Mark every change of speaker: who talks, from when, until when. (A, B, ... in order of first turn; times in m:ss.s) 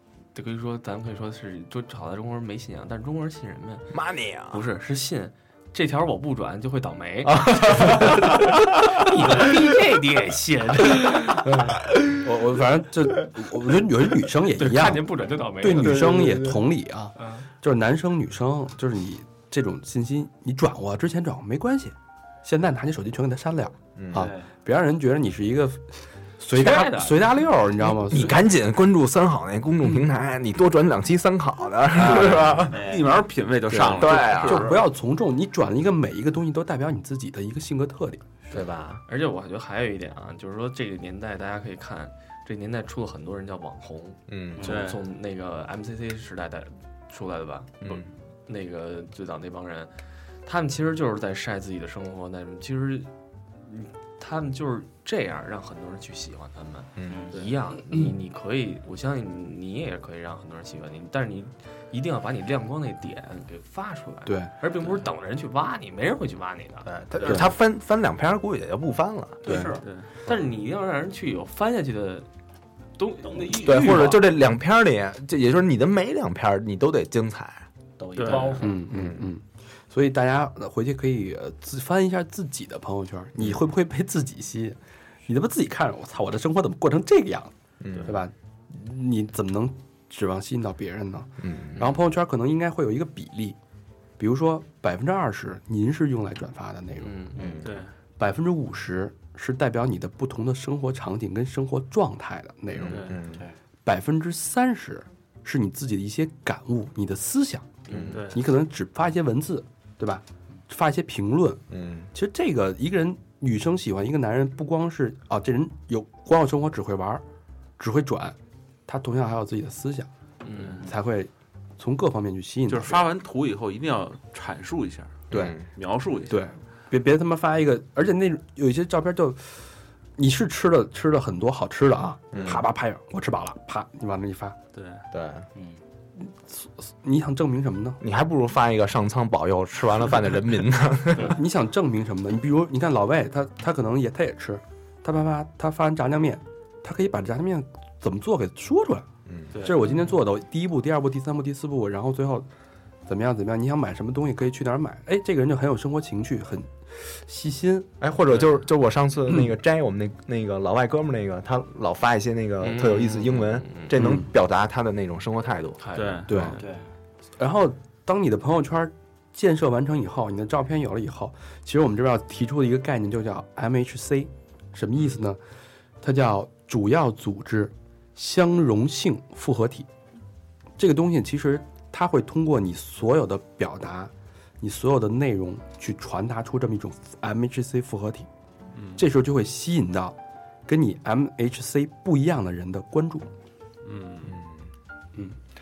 0:00.3-0:03.9 A
0:03.9-0:04.6 B
0:04.5-0:11.6 A
0:07.2-0:09.5 B
0:11.4-0:15.1 C
0:14.5-0:16.2 A
0:15.6-0:28.4 C
0:15.8-0:16.6 B
0:17.2-0:17.5 A
0:24.0-0:24.3 B
0:24.1-0:24.5 D
0:26.5-0:27.2 A
0:27.8-0:32.8 B
0:32.0-0:34.8 E
0:32.7-0:33.1 D
0:33.7-0:38.2 C
0:33.7-0:34.8 B
0:38.5-0:39.0 B
0:39.1-0:49.9 A
0:44.3-0:44.7 B
0:44.6-0:45.0 E
0:47.8-0:48.1 B
0:50.4-1:07.4 A
0:57.0-0:57.3 B
0:57.0-0:57.4 D
1:04.2-1:04.5 C
1:06.8-1:09.7 B
1:09.4-1:09.8 D
1:09.4-1:09.8 C
1:10.2-1:12.3 A
1:13.0-1:14.2 A
1:13.2-1:13.6 D
1:13.5-1:17.6 B
1:18.0-1:18.9 D
1:18.2-1:18.6 E
1:18.6-1:27.5 C
1:18.9-1:19.3 B
1:23.4-1:23.7 B
1:27.8-1:28.2 B
1:28.0-1:33.6 C
1:31.4-1:32.0 B
1:34.2-1:37.5 C
1:37.0-1:37.4 A
1:37.4-1:37.7 B
1:37.4-1:37.7 D
1:37.6-1:37.9 E
1:38.2-1:43.1 C
1:42.7-1:43.4 B
1:42.9-1:43.2 E
1:43.3-1:43.6 D
1:43.8-1:57.2 C
1:47.9-1:48.2 B
1:48.1-1:48.4 E
1:51.7-1:52.1 B
1:57.8-1:58.4 C
1:58.9-2:00.1 C
2:00.4-2:00.9 A
2:00.6-2:00.9 E
2:00.8-2:03.1 C
2:02.7-2:06.5 E
2:05.3-2:05.6 B
2:05.3-2:05.6 C
2:06.3-2:09.6 C
2:10.2-2:14.6 C
2:12.3-2:12.6 B
2:14.7-2:15.0 E
2:15.1-2:15.5 B
2:16.2-2:18.0 C
2:18.0-2:21.4 B
2:21.2-2:29.1 C
2:29.2-2:29.5 B
2:29.5-2:29.9 E
2:29.6-2:32.5 C
2:33.1-2:37.9 C
2:38.0-2:45.8 B
2:42.6-2:43.9 A
2:44.0-2:44.3 C
2:45.8-2:46.4 A
2:45.9-2:46.6 E
2:46.3-2:46.6 C
2:46.6-2:46.9 D
2:47.4-2:55.4 C
2:56.0-2:59.9 C
3:00.8-3:08.3 C
3:08.7-3:09.0 E
3:09.0-3:10.2 C
3:10.7-3:13.3 C
3:13.8-3:14.4 E
3:14.2-3:14.6 B